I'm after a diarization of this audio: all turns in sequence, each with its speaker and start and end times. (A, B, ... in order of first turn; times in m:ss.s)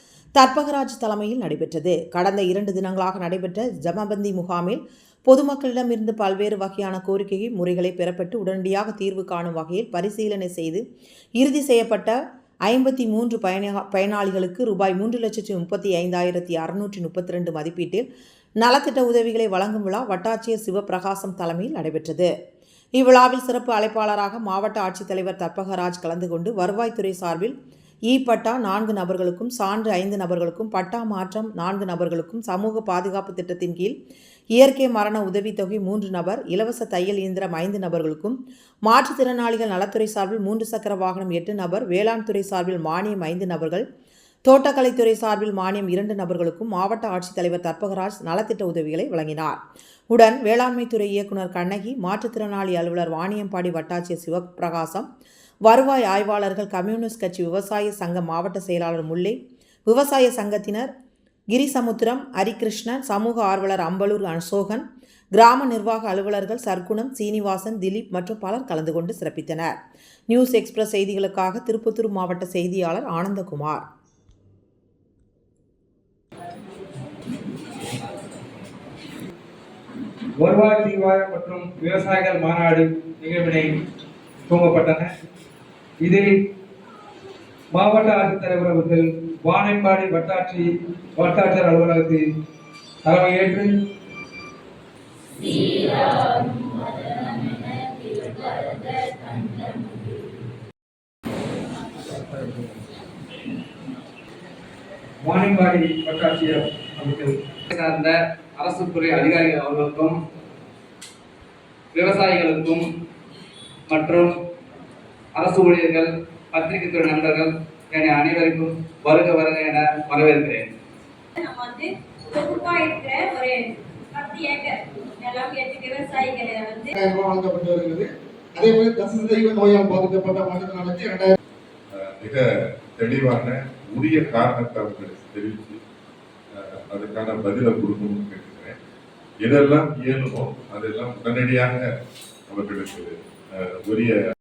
0:00.4-0:10.8 A
0:11.4-0:12.2 A
0:12.7-0:18.0 A
0:18.6-0:22.3 A
0:23.0-0:27.6 A
0:28.1-0:34.0 A
0:34.6-0:43.8 A
0:44.5-0:49.6 A
0:50.1-0:55.1 A
0:55.7-1:00.9 A
1:01.5-1:09.8 A
1:10.3-1:13.8 A
1:20.4-1:23.8 B
1:24.5-1:25.1 B
1:26.0-1:26.4 B
1:27.7-1:32.2 B
1:33.0-1:33.8 B
1:35.5-1:37.9 C
1:45.2-1:47.5 B
1:47.7-1:50.2 D
1:51.9-1:52.8 D
1:53.9-1:54.3 D
1:55.4-2:00.7 D
2:01.4-2:06.9 C
2:07.0-2:11.4 E
2:11.9-2:12.4 F
2:13.0-2:15.8 F
2:16.6-2:18.8 F
2:19.4-2:21.9 F
2:22.5-2:24.2 F